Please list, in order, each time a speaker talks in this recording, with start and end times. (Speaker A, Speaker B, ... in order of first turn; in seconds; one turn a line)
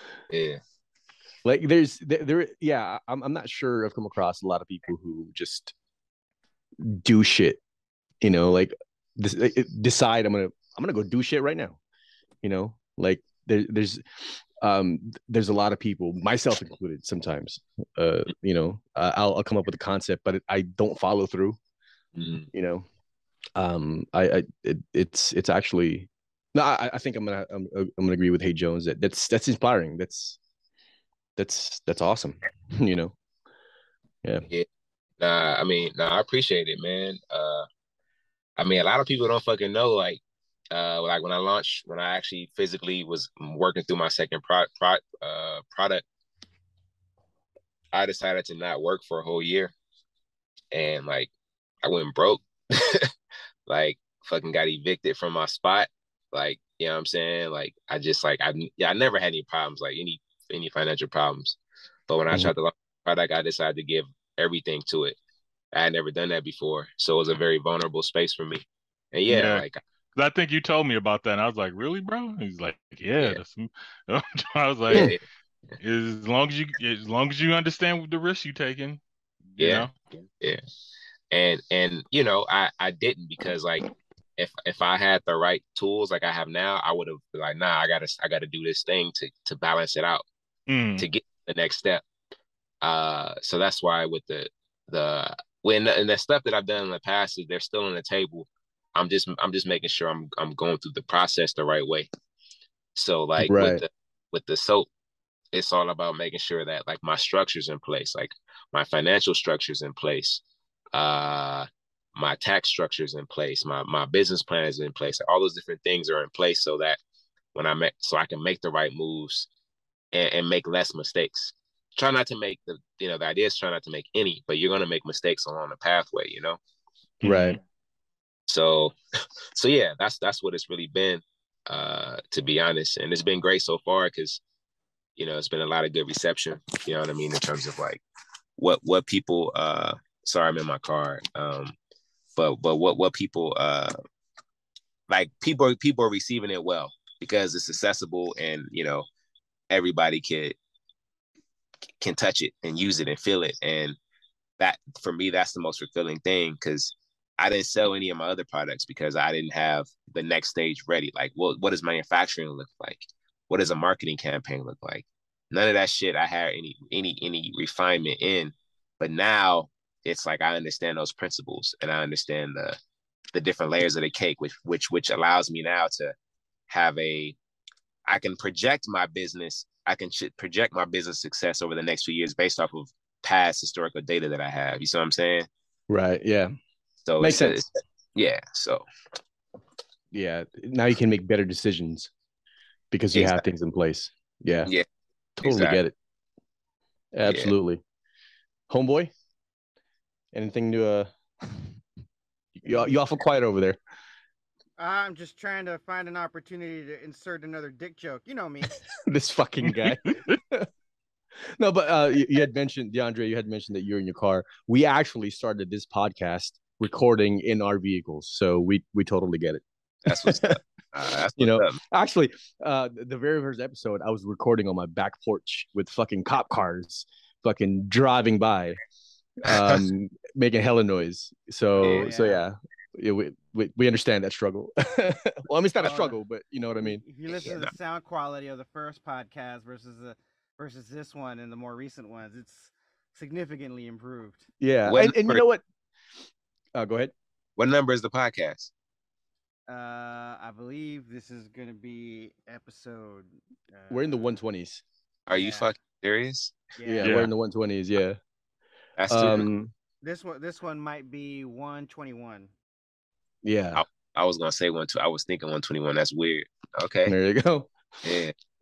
Speaker A: 0.3-0.6
Speaker B: 1.4-5.7
Speaker B: 6.8-7.6
Speaker B: 8.2-11.8
Speaker B: 12.4-21.6
Speaker A: 22.2-22.5
Speaker B: 22.5-22.9
Speaker B: 23.6-30.4
Speaker B: 31.4-33.1
Speaker A: 35.2-37.7
Speaker A: 38.6-40.2
Speaker A: 40.7-46.0
Speaker A: 47.9-49.7
Speaker A: 50.7-51.3
Speaker A: 51.8-53.1
Speaker A: 53.7-61.6
Speaker A: 62.1-65.2
Speaker A: 65.7-69.8
Speaker C: 69.3-69.7
Speaker C: 70.2-75.1
Speaker A: 74.9-75.2
Speaker B: 74.9-75.2
Speaker C: 75.8-79.0
Speaker C: 79.5-79.9
Speaker A: 79.6-79.9
Speaker A: 81.3-90.2
Speaker C: 90.7-91.1
Speaker A: 91.0-92.0
Speaker A: 92.8-102.1
Speaker A: 103.0-104.9
Speaker B: 103.4-103.8
Speaker A: 105.5-110.4
Speaker A: 110.9-117.0
Speaker A: 117.5-119.5
Speaker A: 120.1-126.6
Speaker C: 127.2-127.6
Speaker B: 127.2-127.6
Speaker A: 128.5-129.0
Speaker A: 129.6-134.4
Speaker A: 135.2-138.0
Speaker A: 138.6-141.8
Speaker A: 142.4-143.9
Speaker A: 145.1-149.1
Speaker A: 149.7-150.6
Speaker A: 152.0-154.0
Speaker A: 154.6-172.8
Speaker A: 173.3-176.2
Speaker A: 176.7-177.4
Speaker A: 178.1-185.5
Speaker B: 185.9-186.5
Speaker A: 187.1-188.9
Speaker B: 187.2-187.7
Speaker B: 190.1-192.1
Speaker B: 192.9-194.7
Speaker A: 193.2-193.4
Speaker B: 195.4-195.9
Speaker A: 195.4-195.8
Speaker B: 197.1-197.8
Speaker A: 197.2-197.5
Speaker B: 198.7-199.1
Speaker B: 200.3-201.1
Speaker B: 202.6-203.8
Speaker D: 204.8-208.7
Speaker B: 209.1-210.7
Speaker C: 209.6-210.4
Speaker B: 211.6-220.6
Speaker A: 220.1-221.8
Speaker B: 221.3-228.8
Speaker B: 229.4-237.0
Speaker A: 229.5-229.8
Speaker A: 231.8-232.1
Speaker D: 231.9-232.4
Speaker D: 235.8-236.2
Speaker D: 236.8-244.5
Speaker A: 237.3-237.7
Speaker B: 244.6-245.6
Speaker A: 244.9-245.4
Speaker B: 246.8-247.1
Speaker A: 247.6-248.7
Speaker D: 249.7-254.4
Speaker B: 253.9-254.8
Speaker A: 255.3-256.6
Speaker D: 255.3-255.7
Speaker D: 256.8-257.1
Speaker B: 256.9-258.2
Speaker C: 257.0-257.3
Speaker A: 259.0-259.5
Speaker B: 259.1-259.7
Speaker D: 260.0-262.5
Speaker B: 263.4-263.8
Speaker A: 263.8-267.1
Speaker B: 267.1-268.2
Speaker A: 268.0-268.3